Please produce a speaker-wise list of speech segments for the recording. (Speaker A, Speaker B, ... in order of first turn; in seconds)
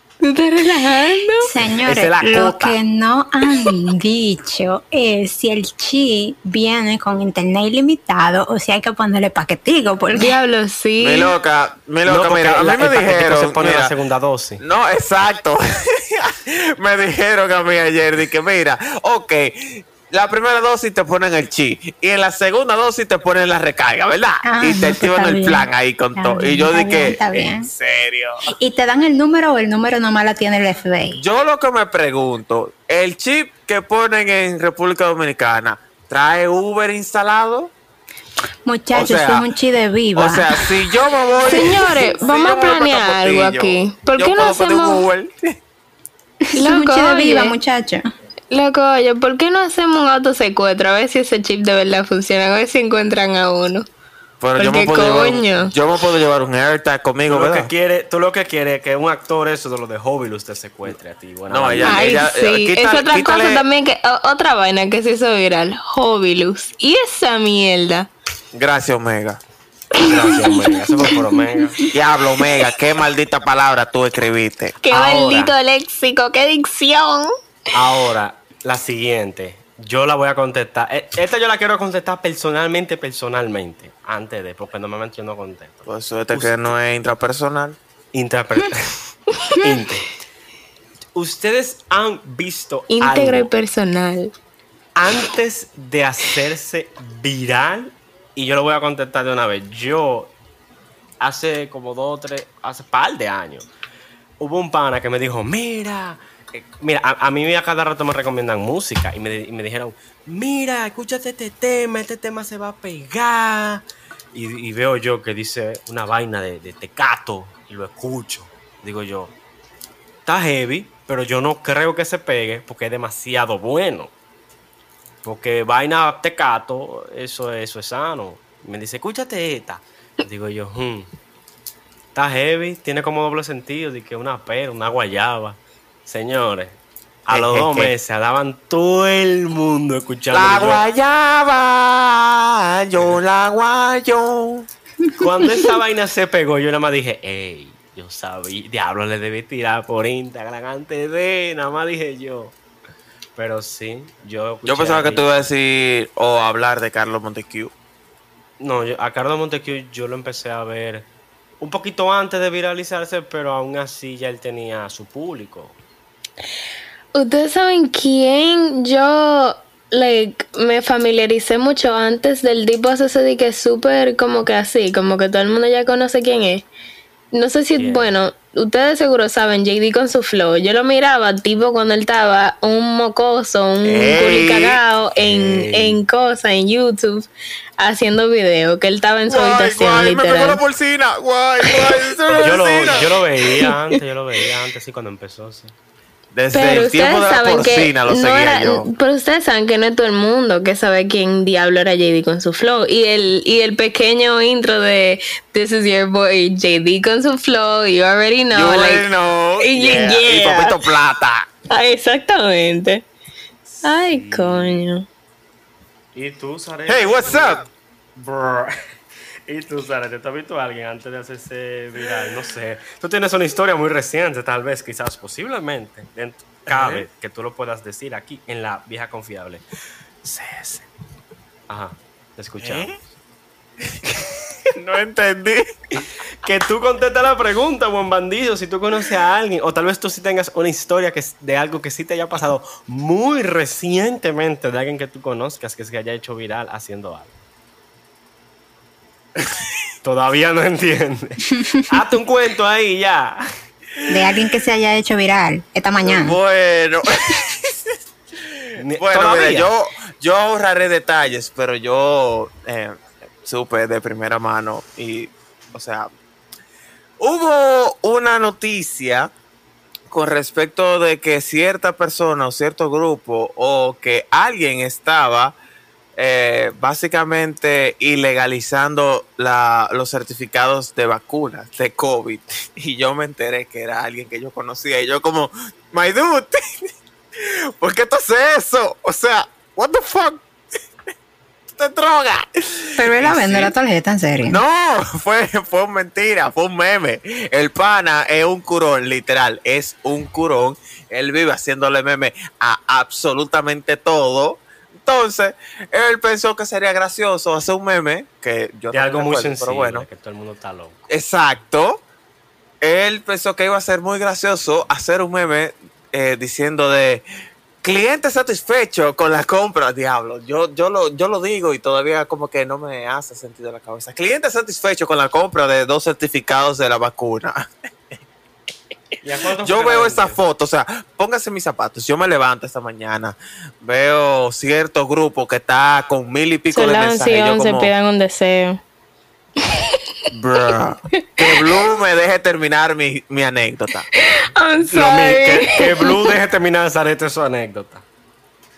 Speaker A: 0.2-1.5, 10.1-11.3, 41.4-45.0, 46.6-47.6, 48.5-53.9, 54.6-55.7, 61.8-68.1, 70.0-71.1, 74.8-77.3, 92.9-94.3, 167.1-176.7, 177.3-190.6, 191.7-192.0, 193.5-193.8, 196.5-209.1, 209.6-210.8, 211.7-213.1, 213.8-215.1, 336.7-338.8, 339.6-340.0, 341.4-341.6, 344.2-346.4
Speaker B: 1.4-10.4, 24.4-27.7, 28.5-31.2, 38.6-40.7, 46.5-48.1, 254.1-256.4, 293.0-294.6
Speaker C: 1.8-2.8, 12.1-14.6, 57.3-62.1, 70.0-71.9, 74.9-75.5, 77.7-86.7, 88.1-90.2, 91.2-93.5, 95.0-100.3, 101.2-103.7, 104.4-119.3, 120.3-124.1, 125.2-131.1, 132.1-140.8, 145.2-152.6, 153.4-155.5, 158.6-161.1, 161.6-165.8, 177.8-178.2, 185.2-186.0, 192.3-195.7, 213.7-214.8, 216.1-218.8, 219.5-229.6, 230.2-230.8, 231.7-233.0, 236.4-247.3, 250.0-253.4, 258.8-259.7, 308.9-311.0, 329.2-330.4, 344.8-348.0
Speaker D: 11.0-13.9, 14.6-28.5, 31.2-37.7, 38.9-39.5, 40.1-45.6, 54.4-57.7, 61.5-63.6, 68.5-69.4, 71.9-74.8, 85.9-87.8, 137.3-137.9, 140.3-144.7, 154.7-157.7, 183.8-184.8, 189.3-193.2, 196.3-198.9, 208.5-211.5, 216.9-217.7, 226.7-227.1, 232.6-232.9, 234.7-235.7, 256.0-266.1, 267.2-269.3, 270.1-275.6, 276.2-286.6, 287.4-290.4, 291.7-293.7, 294.5-310.1, 311.1-312.0, 312.8-317.2, 317.8-327.6, 329.6-337.9, 340.3-344.1